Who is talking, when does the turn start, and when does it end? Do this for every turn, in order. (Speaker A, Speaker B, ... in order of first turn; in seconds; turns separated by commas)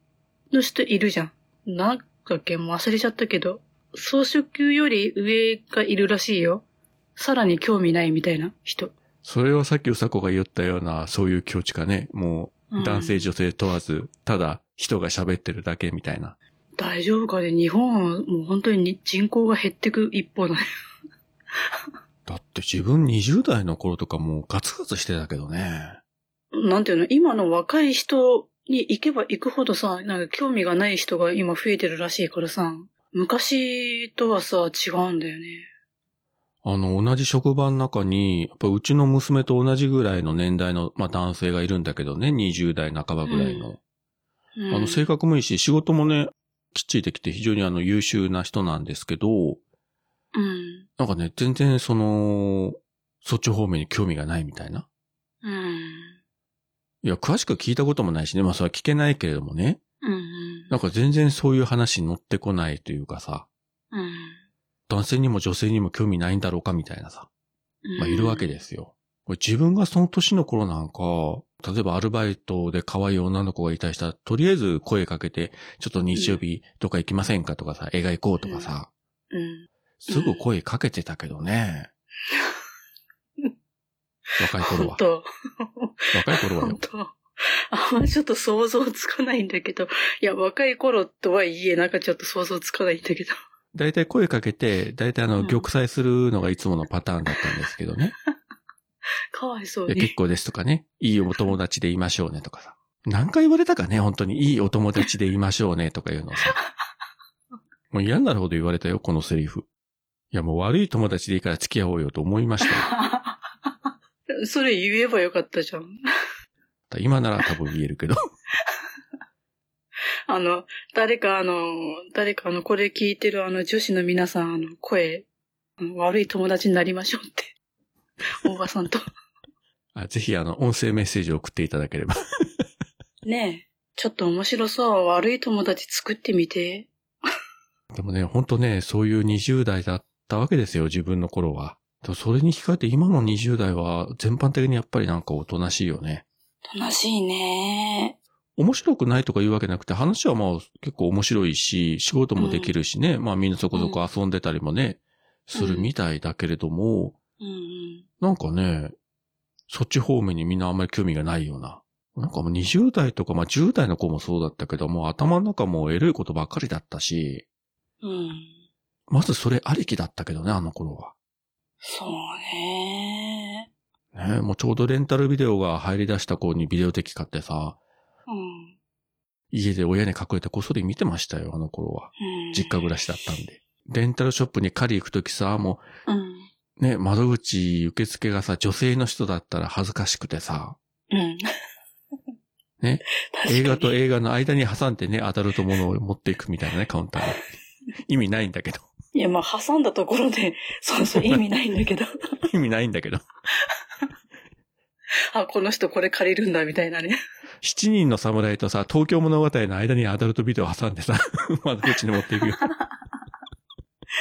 Speaker A: 0.5-6.6, Speaker A: 7.2-8.9, Speaker B: 9.2-16.4, Speaker A: 12.7-13.3, Speaker A: 16.8-20.6, Speaker B: 22.3-26.0, Speaker A: 26.5-35.7, Speaker B: 36.6-43.8, Speaker A: 43.3-43.7, Speaker A: 44.6-45.1, Speaker B: 44.7-49.6, Speaker A: 50.3-50.9, Speaker B: 51.0-54.9, Speaker A: 55.4-56.2, Speaker B: 57.0-59.8, Speaker A: 60.0-60.8, Speaker B: 60.7-63.5, Speaker A: 63.9-64.4, Speaker B: 64.9-67.3, Speaker A: 67.8-68.6, Speaker B: 68.0-78.9, Speaker A: 76.1-76.4, Speaker A: 78.4-78.7, Speaker A: 79.3-80.4, Speaker B: 80.0-81.9, Speaker A: 82.3-82.6, Speaker B: 84.4-85.0, Speaker A: 84.6-93.4, Speaker B: 86.1-86.8, Speaker B: 93.7-98.1, Speaker A: 95.4-95.7, Speaker A: 99.3-100.1, Speaker B: 99.9-106.6, Speaker B: 107.9-109.7, Speaker B: 110.3-112.9, Speaker A: 112.7-113.4, Speaker A: 114.4-115.9, Speaker B: 116.9-118.2, Speaker A: 120.3-125.3, Speaker A: 125.8-127.5, Speaker A: 128.4-129.0, Speaker B: 129.9-132.2, Speaker A: 133.2-136.9, Speaker B: 137.9-146.2, Speaker A: 146.7-148.2, Speaker B: 148.6-157.2, Speaker A: 152.4-152.7, Speaker A: 153.7-154.0, Speaker A: 155.6-155.9, Speaker A: 157.4-158.1, Speaker B: 158.2-158.9, Speaker B: 159.7-167.4, Speaker A: 168.0-168.6, Speaker B: 169.1-171.1, Speaker A: 171.8-173.7, Speaker B: 174.1-177.8, Speaker A: 178.3-178.8, Speaker B: 179.5-185.8, Speaker A: 182.2-182.9, Speaker A: 186.1-186.5, Speaker B: 186.8-190.8, Speaker A: 191.1-191.4, Speaker B: 192.8-197.4, Speaker A: 193.3-194.0, Speaker B: 198.1-198.9, Speaker A: 199.1-202.2, Speaker B: 201.1-201.4, Speaker B: 202.4-203.2, Speaker A: 205.3-207.2, Speaker B: 207.6-212.7